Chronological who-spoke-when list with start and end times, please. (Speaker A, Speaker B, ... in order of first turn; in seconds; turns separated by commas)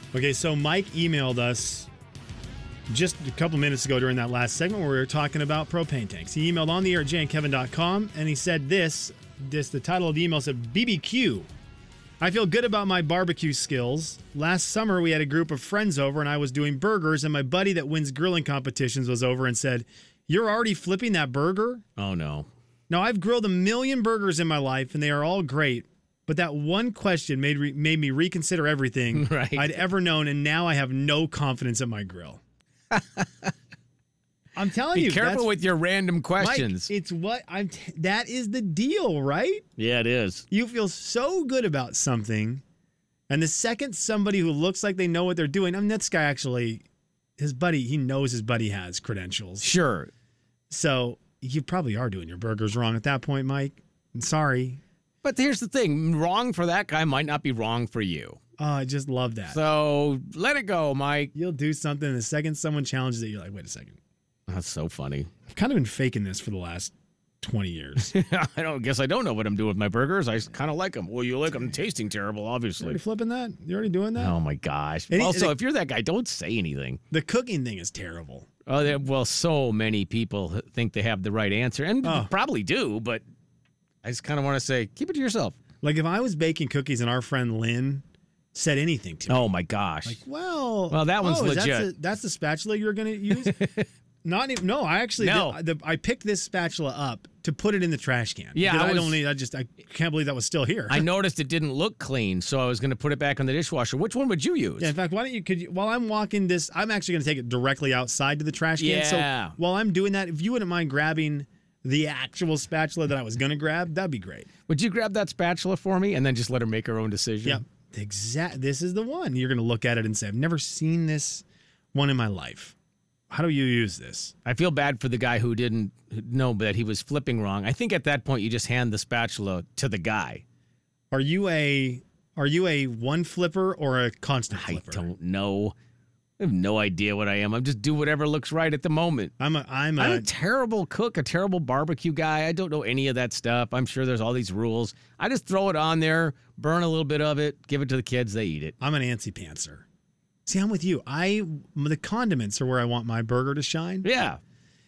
Speaker A: 0.1-1.9, Speaker A: 2.9-11.5, Speaker A: 12.2-21.8, Speaker B: 22.0-22.5, Speaker A: 22.9-32.4, Speaker B: 29.1-29.8, Speaker B: 32.9-33.5, Speaker A: 34.5-35.5, Speaker B: 34.9-36.9, Speaker A: 36.4-39.6, Speaker B: 39.8-40.4, Speaker A: 40.5-42.6, Speaker A: 43.3-46.8, Speaker A: 47.4-49.7, Speaker B: 49.6-50.1, Speaker A: 50.7-54.8, Speaker B: 55.2-58.4, Speaker A: 58.6-59.6, Speaker B: 59.5-61.3, Speaker A: 61.3-64.0, Speaker B: 64.5-65.3, Speaker A: 65.5-68.2, Speaker B: 68.0-73.0, Speaker A: 72.8-74.3, Speaker B: 74.2-77.0, Speaker A: 75.1-75.5, Speaker A: 77.1-78.5, Speaker B: 78.7-83.2, Speaker A: 82.0-82.3, Speaker B: 84.0-85.6, Speaker A: 85.8-89.5, Speaker B: 89.3-90.2, Speaker A: 90.0-93.7, Speaker B: 90.9-91.9, Speaker B: 93.3-93.9, Speaker A: 94.2-101.1, Speaker B: 95.2-95.6, Speaker B: 98.5-99.2, Speaker B: 100.9-104.9, Speaker A: 104.8-114.5, Speaker B: 108.8-109.5, Speaker B: 114.7-117.6, Speaker A: 117.4-122.7, Speaker A: 123.3-124.3, Speaker B: 124.4-130.4, Speaker A: 131.1-135.1, Speaker B: 134.5-135.7, Speaker B: 136.4-139.3, Speaker A: 139.4-140.3, Speaker B: 140.0-148.7, Speaker A: 148.8-149.8, Speaker A: 150.4-154.1, Speaker B: 154.0-154.4